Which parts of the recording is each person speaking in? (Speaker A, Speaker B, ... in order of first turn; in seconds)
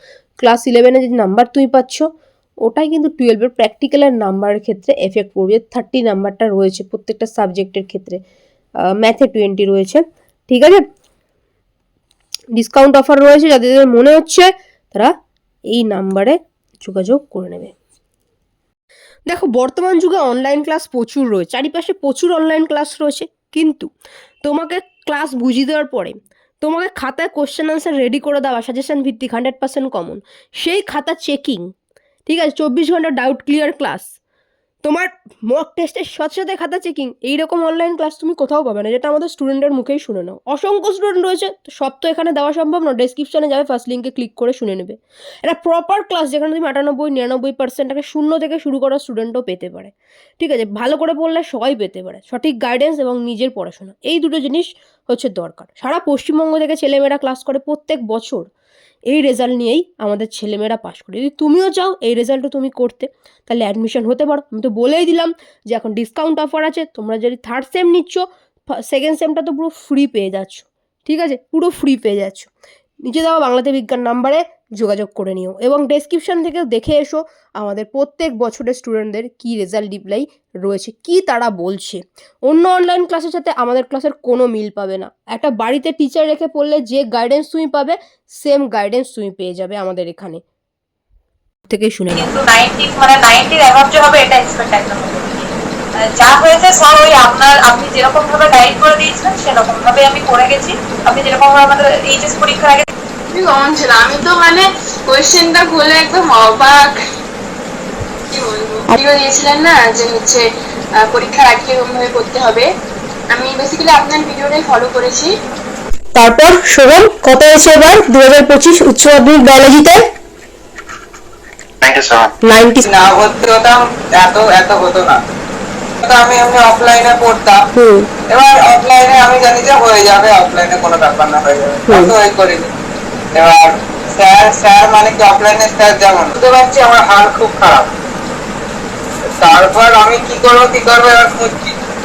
Speaker A: 0.4-2.1, 2.6-8.2, 8.9-10.8, 12.5-15.1, 15.7-17.7, 19.3-23.9, 24.4-31.7, 32.2-34.1, 34.8-58.5, 59.1-68.2, 68.8-72.5, 73.0-90.4, 91.7-92.3, 116.1-120.1, 122.4-122.8, 127.7-128.1, 131.9-132.1
Speaker B: 92.1-102.8
Speaker C: 103.3-107.0, 108.3-110.5, 111.0-112.7, 113.3-115.3
Speaker D: 122.8-125.2, 126.0-127.6, 128.3-132.7, 133.3-137.9, 139.4-141.8